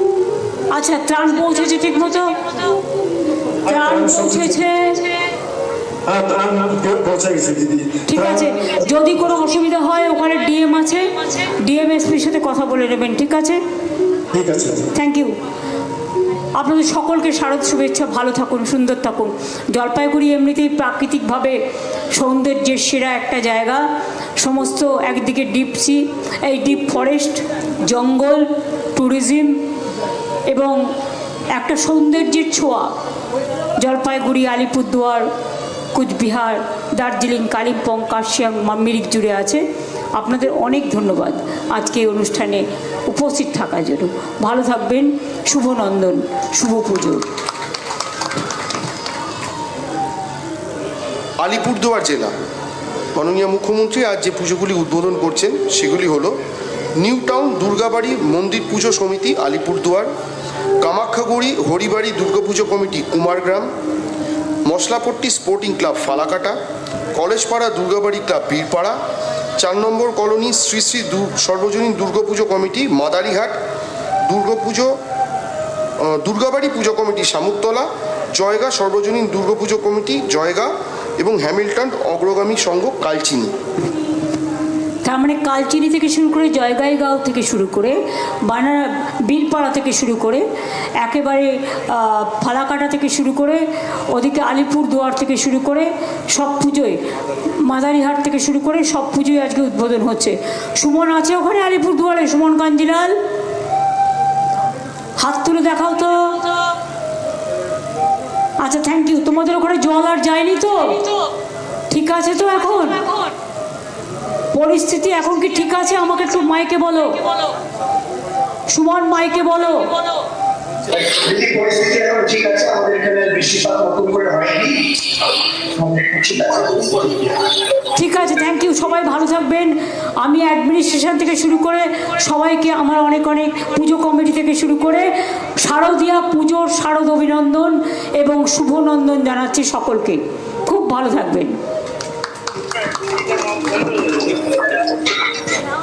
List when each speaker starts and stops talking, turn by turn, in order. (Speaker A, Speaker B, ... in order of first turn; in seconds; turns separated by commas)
Speaker A: 0.7-2.7, Speaker A: 3.7-5.0, Speaker B: 3.7-4.5, Speaker B: 6.1-8.5, Speaker A: 8.1-13.6, Speaker B: 14.3-14.9, Speaker A: 14.9-15.3, Speaker A: 16.6-21.6, Speaker A: 22.1-23.8, Speaker A: 24.4-29.6, Speaker A: 30.5-30.8, Speaker A: 31.5-32.9, Speaker A: 33.8-35.3, Speaker A: 35.9-39.6, Speaker A: 40.2-47.3, Speaker C: 51.4-52.3, Speaker C: 53.1-56.4, Speaker C: 57.0-60.1, Speaker C: 60.8-63.7, Speaker C: 64.7-66.6, Speaker C: 67.2-69.0, Speaker C: 69.6-73.6, Speaker C: 74.3-75.0, Speaker C: 76.0-83.5, Speaker A: 85.0-90.4, Speaker A: 91.0-97.0, Speaker A: 97.6-103.2, Speaker A: 105.2-106.5, Speaker A: 108.6-111.0, Speaker A: 111.9-113.2, Speaker A: 114.5-117.3, Speaker A: 118.7-120.0, Speaker D: 120.9-127.5, Speaker A: 128.0-141.6, Speaker D: 143.1-144.8